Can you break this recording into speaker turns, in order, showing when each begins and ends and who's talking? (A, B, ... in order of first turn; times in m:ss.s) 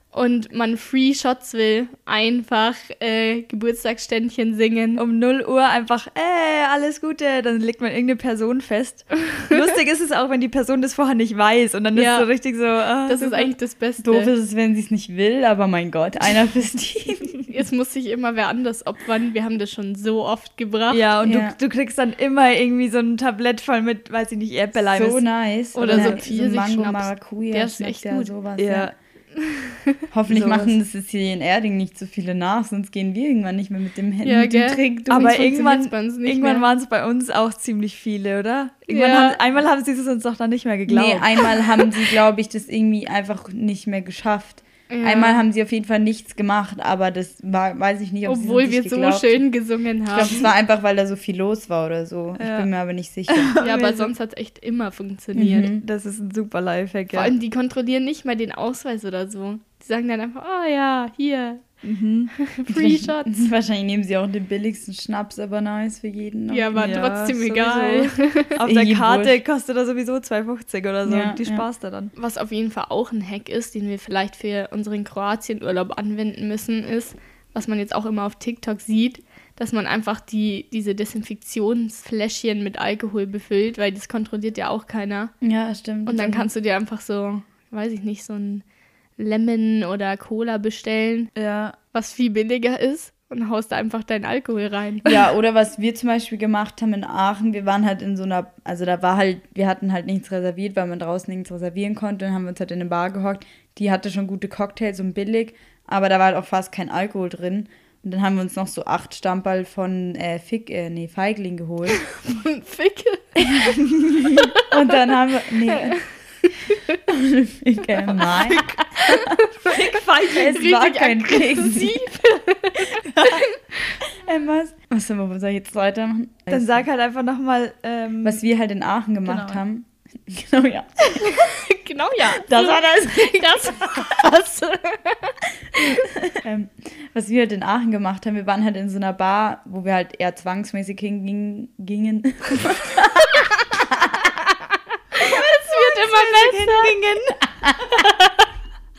0:00.1-0:05.0 A
0:05.0-0:13.5 B
0:11.9-0:12.3 A
0:13.1-0:14.3 A
0:14.0-0:17.4 C
0:17.5-0:21.1 A
0:20.9-0:26.2 B
0:21.2-0:21.6 C
0:24.8-0:28.9 C
0:25.8-0:28.3 A
0:28.6-0:28.9 B
0:29.4-0:30.0 A
0:30.1-0:35.4 C
0:30.3-0:30.8 B
0:34.2-0:36.7 A
0:35.1-0:41.8 B
0:38.9-0:39.4 A
0:40.9-0:49.4 C
0:44.9-0:45.4 A
0:48.2-0:50.5 A
0:50.1-0:53.5 C
0:52.4-0:52.7 B
0:53.3-0:54.1 B
0:53.6-0:55.7 A
0:55.4-0:55.8 C
0:55.7-0:57.3 B
0:57.1-1:01.6 A
1:01.8-1:02.3 B
1:02.4-1:03.5 A
1:02.7-1:07.1 C
1:06.5-1:08.6 A
1:06.7-1:12.1 B
1:08.6-1:09.4 C
1:11.0-1:11.6 C
1:12.2-1:25.3 A
1:25.4-1:26.5 C
1:26.0-1:28.6 A
1:29.2-1:31.3 A
1:31.4-1:31.8 B
1:31.9-1:35.2 A
1:35.0-1:52.0 C
1:52.2-1:54.7 A
1:54.1-1:54.4 B
1:54.6-1:56.0 C
1:55.7-1:55.9 A
1:57.1-1:59.3 C
1:58.2-1:59.7 A
1:59.6-2:00.7 B
2:00.3-2:02.1 C
2:00.3-2:04.0 A
2:04.1-2:06.8 C
2:06.5-2:08.4 B
2:08.2-2:11.4 C
2:09.2-2:09.6 B
2:11.2-2:16.0 A
2:12.3-2:14.3 C
2:15.8-2:24.3 C
2:25.1-2:27.0 A
2:25.2-2:27.4 B
2:27.6-2:28.1 C
2:28.0-2:28.3 A